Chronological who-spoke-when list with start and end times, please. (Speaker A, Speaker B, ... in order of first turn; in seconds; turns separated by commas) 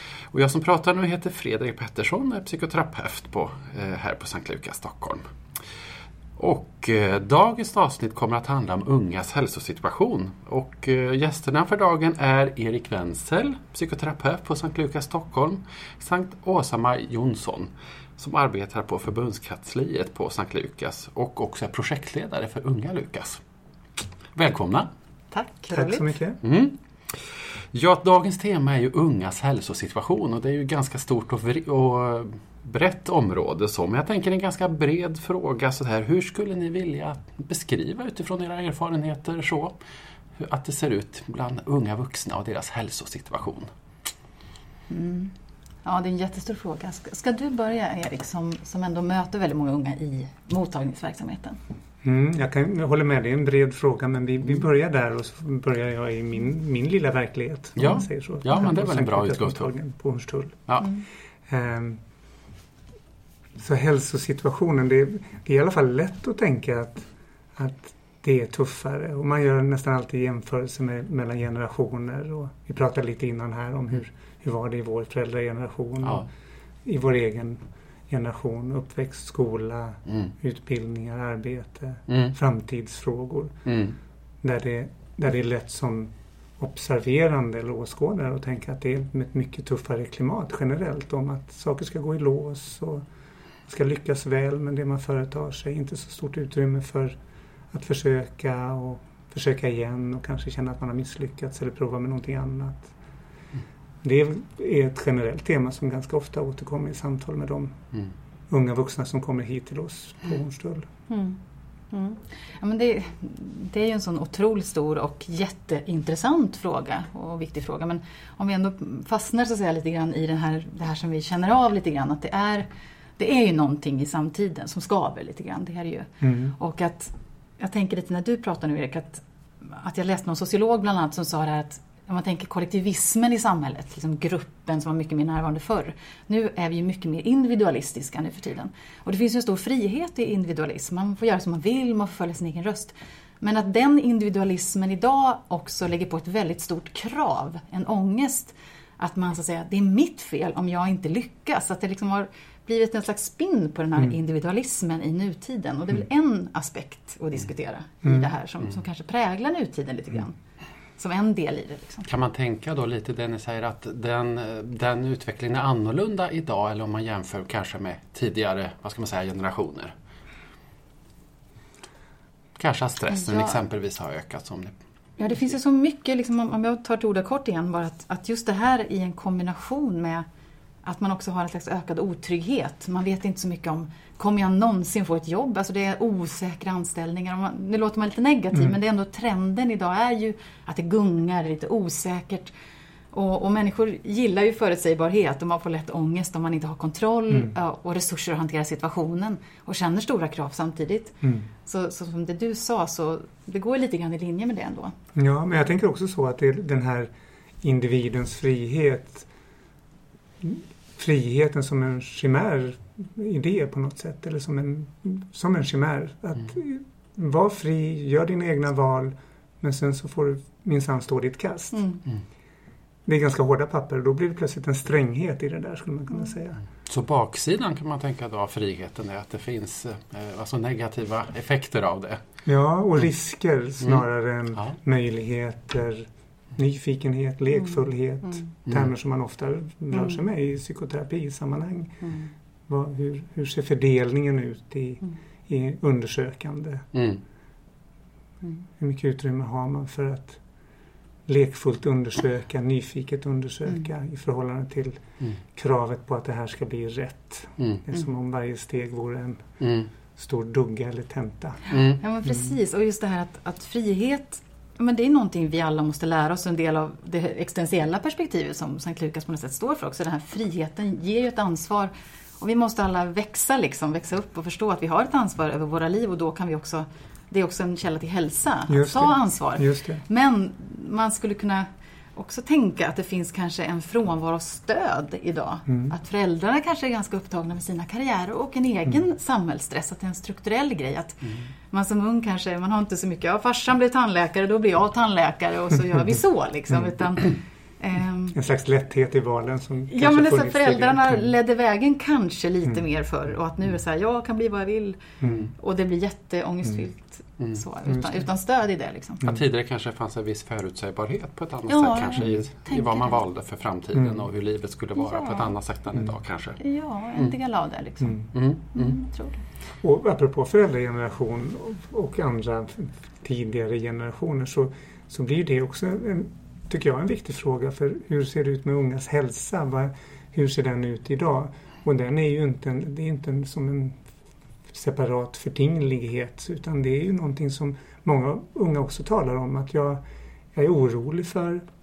Speaker A: 0.3-5.2, Speaker A: 6.4-23.4, Speaker A: 24.3-24.9, Speaker B: 25.3-26.1, Speaker C: 25.7-26.4, Speaker A: 26.4-39.8, Speaker A: 40.4-43.7, Speaker B: 44.9-51.6, Speaker C: 52.0-60.7, Speaker A: 57.8-59.7, Speaker C: 61.5-62.0, Speaker C: 63.6-76.3, Speaker C: 76.8-83.5, Speaker A: 82.1-82.3, Speaker A: 83.7-84.0, Speaker C: 84.4-93.0, Speaker C: 93.7-97.2, Speaker C: 97.7-102.9, Speaker C: 104.0-107.8, Speaker C: 108.5-110.8, Speaker B: 111.1-111.4, Speaker B: 111.9-122.7, Speaker B: 123.2-160.4, Speaker C: 126.2-126.5, Speaker C: 158.0-158.3, Speaker B: 161.0-162.1, Speaker A: 162.1-169.9, Speaker A: 172.6-174.7, Speaker B: 173.1-173.6, Speaker B: 175.2-180.2, Speaker B: 180.8-192.5, Speaker B: 193.1-204.9, Speaker C: 201.2-201.5, Speaker C: 205.1-207.1, Speaker C: 207.6-209.3, Speaker C: 210.4-221.8, Speaker B: 221.7-222.0, Speaker C: 223.1-226.6, Speaker A: 226.9-232.2, Speaker C: 232.4-242.1, Speaker B: 239.9-240.2, Speaker B: 242.0-242.3, Speaker C: 242.7-246.9, Speaker A: 246.9-247.2, Speaker C: 248.7-250.4, Speaker C: 251.2-259.5, Speaker A: 257.6-257.8, Speaker A: 259.6-259.9, Speaker C: 260.2-261.6, Speaker B: 261.7-298.4, Speaker A: 261.7-262.0, Speaker C: 278.7-280.0, Speaker C: 285.7-285.9, Speaker C: 298.3-301.3, Speaker B: 299.9-309.2, Speaker C: 305.2-305.5, Speaker C: 307.9-308.2, Speaker A: 309.2-316.6, Speaker B: 311.7-313.2, Speaker C: 313.9-314.3, Speaker B: 315.0-315.5, Speaker B: 316.6-319.4, Speaker A: 318.3-319.0, Speaker C: 319.8-334.0, Speaker C: 334.7-340.0, Speaker C: 340.5-341.6